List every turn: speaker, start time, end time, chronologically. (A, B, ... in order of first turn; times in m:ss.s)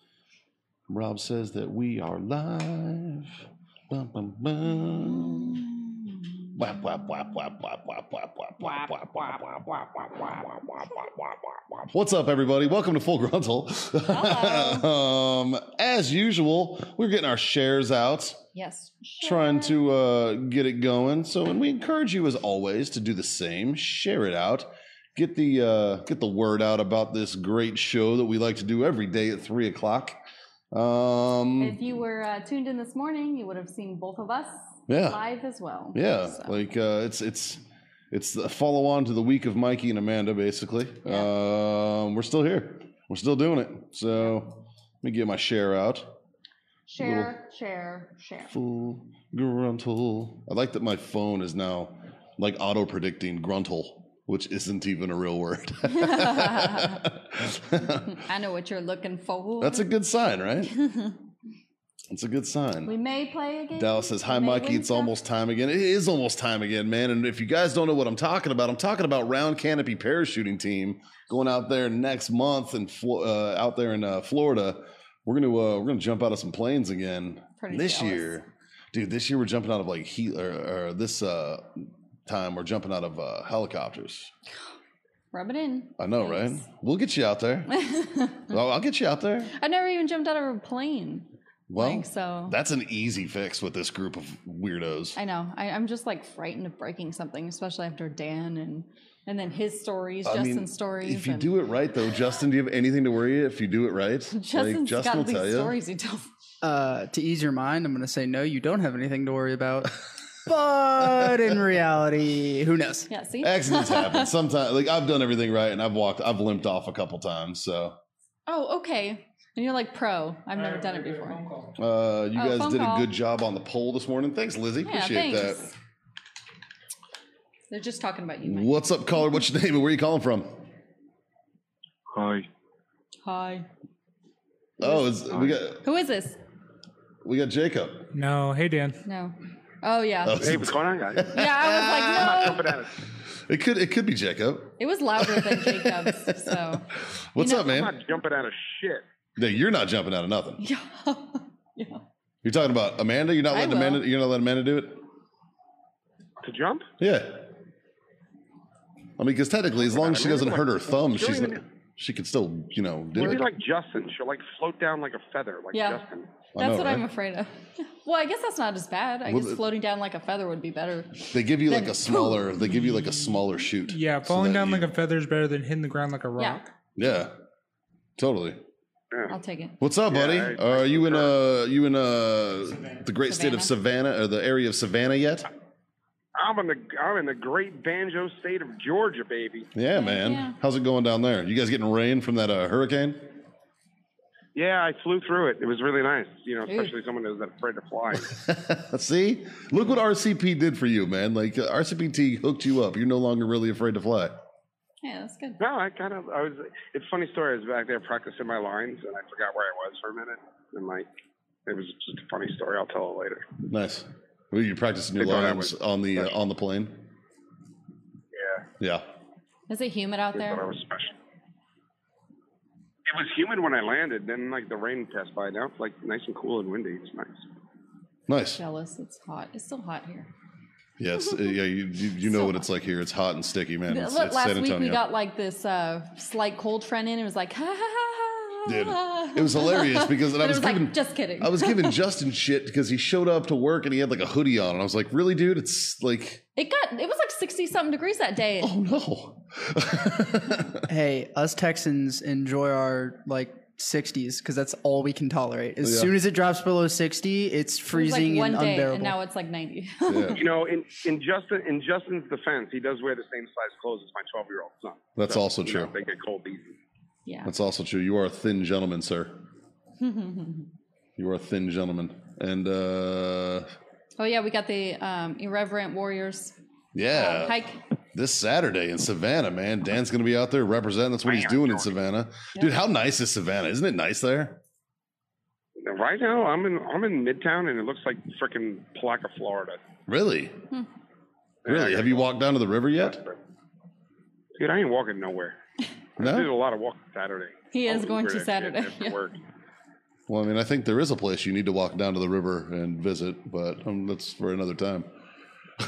0:00.9-0:05.6 A
0:04.7-0:07.3 B
0:06.6-0:10.9 A
0:08.6-0:09.6 B
0:11.8-0:18.4 A
0:14.1-0:14.9 B
0:18.5-0:19.8 B
0:19.2-0:30.2 A
0:30.7-0:31.8 A
0:31.6-0:36.6 B
0:34.9-0:35.2 A
0:35.9-0:46.2 A
0:41.0-0:41.3 B
0:46.9-0:48.5 B
0:47.0-0:47.3 A
0:48.5-0:58.2 A
0:55.9-0:57.0 B
0:58.0-0:59.9 B
0:59.6-1:00.7 A
1:00.7-1:01.2 B
1:02.1-1:02.9 A
1:02.8-1:05.1 B
1:03.7-1:24.3 A
1:17.6-1:18.3 B
1:25.3-1:26.6 B
1:26.0-1:27.7 A
1:27.7-1:28.5 B
1:28.5-1:29.5 A
1:29.5-1:32.6 B
1:31.7-1:35.2 A
1:35.2-1:41.5 B
1:40.2-1:45.7 A
1:44.3-1:46.3 B
1:46.6-1:49.9 C
1:50.4-1:53.1 C
1:53.1-1:54.3 B
1:53.4-1:58.0 A
1:58.5-2:01.4 B
2:00.6-2:01.7 D
2:01.8-2:05.7 A
2:02.3-2:03.1 B
2:04.8-2:05.7 B
2:07.7-2:08.8 B
2:08.4-2:10.6 A
2:13.2-2:13.7 B
2:14.8-2:15.8 A
2:15.8-2:16.4 B
2:17.2-2:18.1 A
2:18.1-2:19.0 D
2:19.0-2:20.5 B
2:20.2-2:22.7 A
2:20.4-2:21.5 E
2:21.3-2:22.7 B
2:22.1-2:23.0 E
2:23.2-2:27.9 A
2:24.8-2:26.8 B
2:27.4-2:27.6 B
2:27.6-2:29.0 E
2:29.4-2:30.6 A
2:30.6-2:32.0 B
2:32.4-2:35.0 A
2:33.5-2:34.0 B
2:36.4-2:36.9 E
2:37.0-2:37.5 A
2:39.2-2:43.4 A
2:39.8-2:41.6 E
2:43.2-2:46.3 E
2:45.7-2:46.0 B
2:46.5-2:47.0 A
2:46.6-2:52.5 B
2:49.2-2:49.6 A
2:51.3-2:54.9 A
2:53.9-2:56.7 D
2:56.4-2:56.6 B
2:57.0-2:57.3 A
2:58.2-2:58.6 A
2:59.3-2:59.8 B
2:59.8-3:05.5 A
3:00.1-3:01.3 E
3:03.3-3:03.7 B
3:06.4-3:09.7 E
3:09.7-3:13.2 A
3:09.9-3:10.6 B
3:14.5-3:18.3 E
3:16.6-3:16.9 B
3:18.2-3:24.3 A
3:25.0-3:25.6 B
3:25.6-3:31.1 E
3:31.6-3:33.5 E
3:33.7-3:37.0 A
3:35.2-3:36.3 E
3:38.4-3:38.6 E
3:38.8-3:39.0 A
3:39.7-3:40.7 B
3:40.3-3:41.1 E
3:43.1-3:47.4 E
3:48.3-3:48.6 A
3:48.6-3:50.3 B
3:51.0-3:55.0 A
3:52.2-3:52.6 B
3:53.9-4:02.0 B
3:58.6-4:06.4 A
4:06.6-4:08.7 B
4:08.6-4:10.8 A
4:10.9-4:19.2 C
4:15.8-4:16.1 A
4:17.9-4:20.4 B
4:20.0-4:20.4 A
4:20.4-4:26.8 E
4:25.2-4:25.9 A
4:27.2-4:27.5 B
4:27.4-4:29.4 A
4:30.0-4:30.7 B
4:31.2-4:33.7 A
4:34.2-4:36.6 B
4:36.9-4:37.6 A
4:37.1-4:37.8 B
4:38.1-4:44.6 A
4:41.2-4:41.9 E
4:45.8-4:49.8 E
4:50.1-4:50.6 A
4:51.6-4:52.3 E
4:51.6-4:53.2 A
4:53.0-4:53.4 E
4:54.6-4:55.6 E
4:56.2-4:59.4 E
4:56.2-4:56.5 A
4:57.7-4:59.2 B
5:00.3-5:05.1 A